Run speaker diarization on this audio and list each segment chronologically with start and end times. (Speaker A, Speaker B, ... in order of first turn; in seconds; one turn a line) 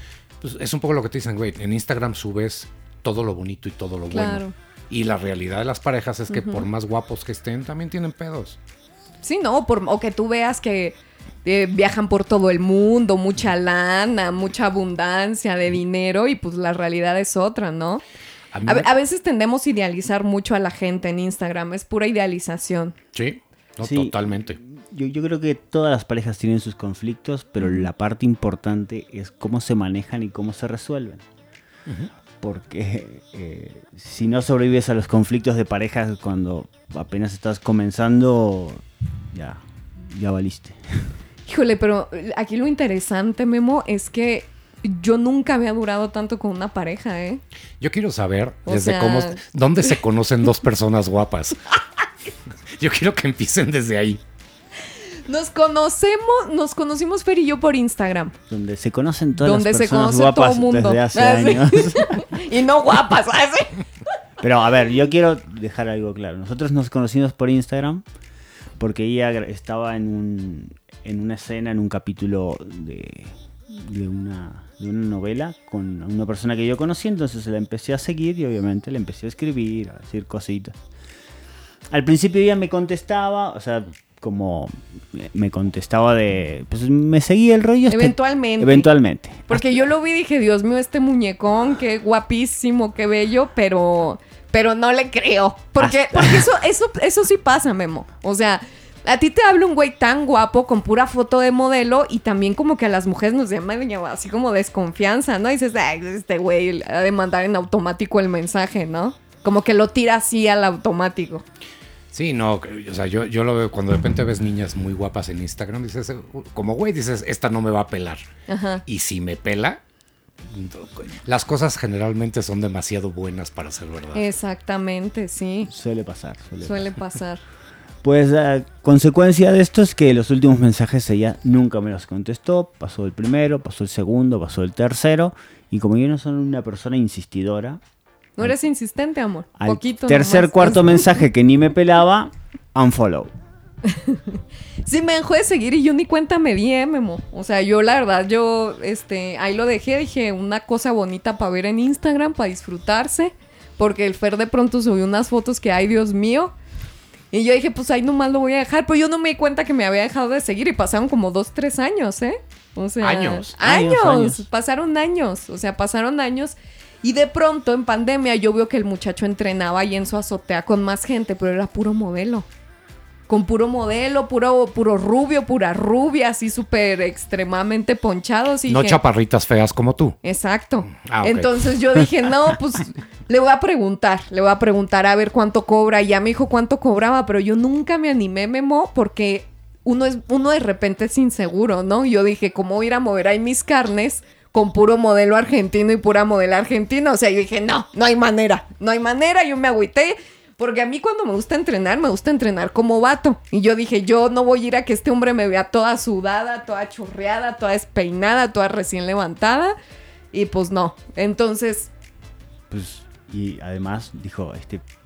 Speaker A: 0.4-8.6
Speaker B: 4.1-4.5
Speaker B: 6.3-6.7
Speaker B: 9.2-18.0
Speaker A: 18.5-18.9
Speaker B: 18.6-22.9
Speaker A: 23.1-24.6
Speaker C: 23.8-31.2
Speaker B: 27.6-27.9
Speaker C: 32.4-41.1
Speaker B: 41.5-47.4
Speaker A: 47.8-51.7
Speaker B: 48.6-49.4
Speaker A: 52.8-54.2
Speaker B: 55.3-58.4
Speaker C: 58.5-62.2
Speaker B: 59.4-63.8
Speaker C: 64.4-68.0
Speaker C: 68.8-80.8
Speaker C: 81.9-89.6
Speaker B: 87.9-88.9
Speaker B: 89.5-111.4
Speaker C: 95.8-96.5
Speaker A: 112.1-118.2
Speaker B: 118.5-118.8
Speaker A: 118.8-119.8
Speaker A: 120.4-124.2
Speaker B: 124.1-125.7
Speaker C: 125.7-126.9
Speaker B: 126.6-127.4
Speaker C: 128.0-137.8
Speaker B: 138.4-141.1
Speaker C: 139.6-143.3
Speaker B: 143.9-156.5
Speaker B: 157.3-172.5
Speaker A: 163.0-163.5
Speaker C: 163.6-164.5
Speaker B: 173.3-179.0
Speaker A: 178.7-180.2
Speaker B: 180.2-209.8
Speaker A: 180.9-182.1
Speaker B: 210.3-211.9
Speaker C: 212.7-214.8